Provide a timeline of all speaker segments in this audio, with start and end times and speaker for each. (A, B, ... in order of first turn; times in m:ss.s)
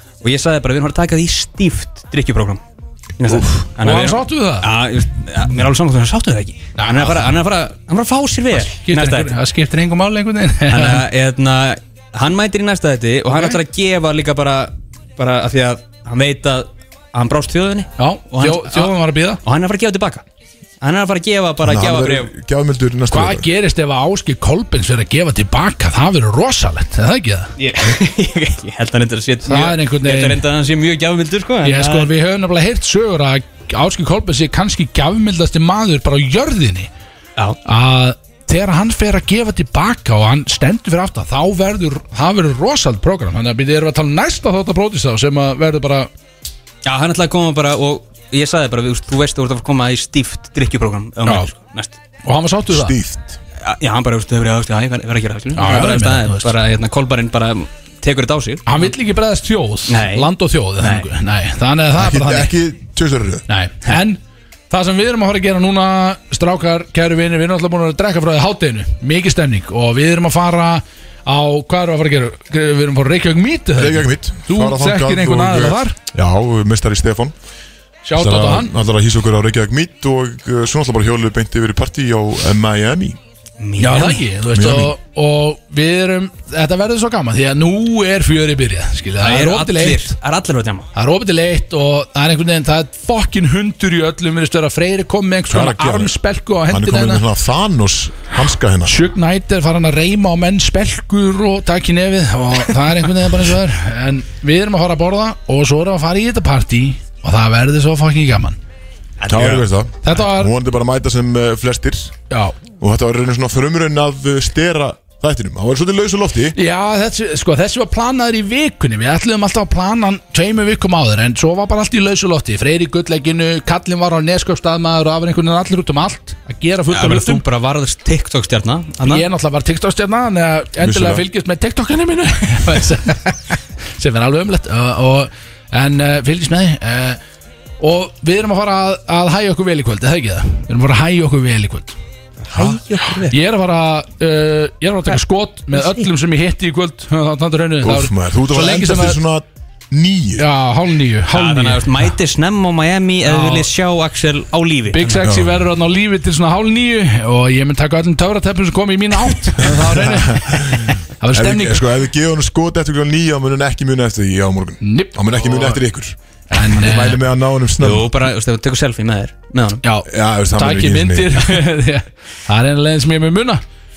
0:00.2-0:02.6 A
0:03.2-0:09.3 A
0:03.2-0:04.7 B
0:06.8-0:07.3 B
0:08.5-0:11.0 B
0:10.7-0:20.2 A
0:18.0-0:19.4 B
0:20.8-0:22.3 A
0:21.6-0:23.5 C
0:23.1-0:27.5 B
0:27.6-0:32.1 A
0:29.4-0:30.4 B
0:31.6-0:36.9 B
0:37.6-0:46.1 B
0:46.8-0:51.9 A
0:52.2-0:53.0 B
0:52.7-0:53.4 C
0:53.6-0:58.8 A
0:55.5-0:56.5 B
0:58.6-1:02.5 B
0:59.9-1:01.1 A
1:02.0-1:03.4 C
1:03.5-1:16.0 B
1:13.8-1:17.3 C
1:18.0-1:18.7 B
1:18.1-1:23.2 C
1:23.6-1:24.2 A
1:23.8-1:30.1 B
1:24.5-1:24.9 C
1:29.2-1:30.9 A
1:30.9-1:37.2 B
1:35.5-1:36.1 C
1:36.7-1:39.0 C
1:38.8-1:48.6 B
1:49.2-1:49.6 A
1:49.3-1:52.1 C
1:50.0-1:50.5 B
1:52.3-1:52.6 B
1:52.8-1:56.6 C
1:56.5-2:07.4 B
2:06.9-2:09.2 A
2:09.0-2:17.2 B
2:10.8-2:11.2 C
2:17.8-2:21.9 B
2:22.5-2:23.3 A
2:23.3-2:29.2 B
2:25.7-2:26.0 A
2:27.8-2:30.4 C
2:30.4-2:31.9 B
2:31.3-2:35.2 A
2:33.2-2:33.7 B
2:34.9-2:41.8 B
2:35.2-2:35.6 C
2:39.6-2:46.2 C
2:44.8-2:45.8 B
2:46.5-2:47.2 B
2:46.7-2:48.1 C
2:47.8-2:49.8 A
2:49.8-2:53.6 B
2:50.1-2:51.4 C